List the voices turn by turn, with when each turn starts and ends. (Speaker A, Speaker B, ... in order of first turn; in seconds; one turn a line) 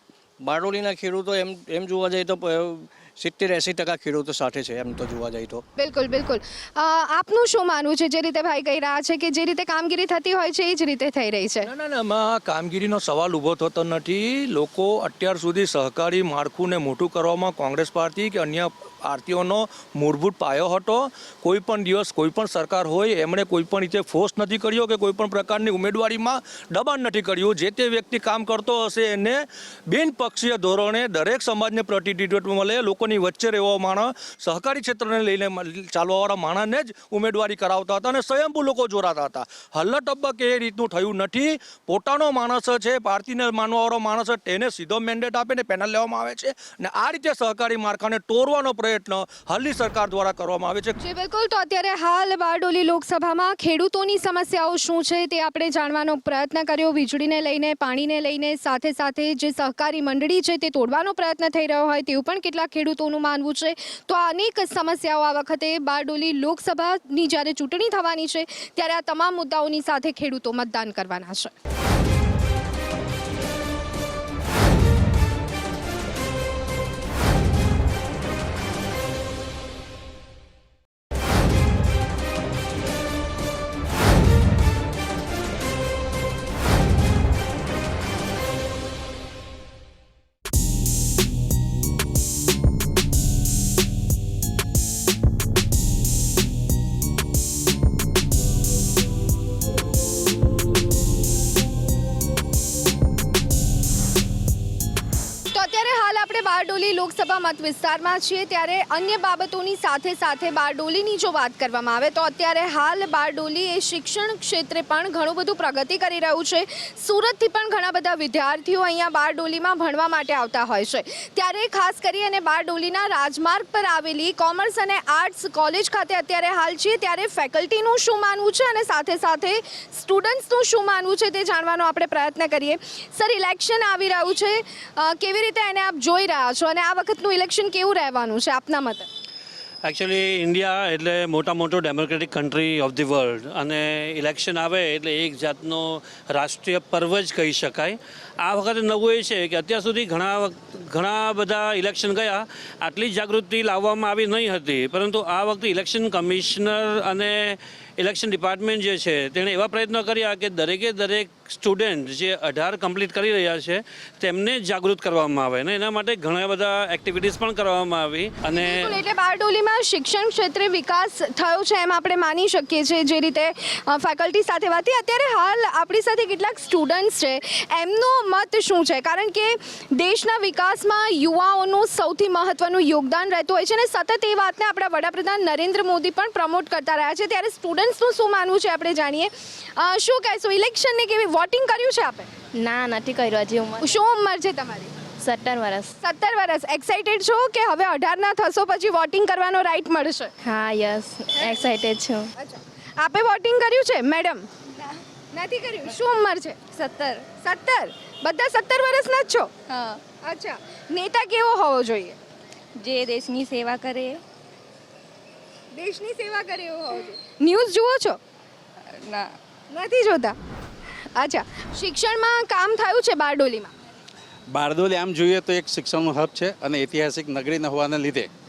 Speaker A: 0.4-5.6
Speaker B: 5.8-11.7
Speaker C: 11.6-51.0
Speaker B: 51.0-71.5
Speaker B: 105.5-139.1
Speaker D: 139.8-168.9
Speaker B: 168.6-192.3
Speaker E: 192.5-193.9
Speaker B: 193.8-194.9
Speaker E: 195.2-195.9
Speaker B: 196.0-200.3
Speaker E: 200.4-202.3
Speaker B: 201.3-201.7
Speaker B: 202.3-204.5
Speaker B: 205.3-206.6
Speaker E: 206.7-207.2
Speaker B: 207.4-209.5
Speaker E: 209.7-210.0
Speaker B: 210.2-212.2
Speaker E: 212.8-214.2
Speaker B: 215.7-218.2
Speaker E: 218.9-219.3
Speaker B: 219.7-220.3
Speaker B: 221.1-223.7
Speaker F: 224.5-228.3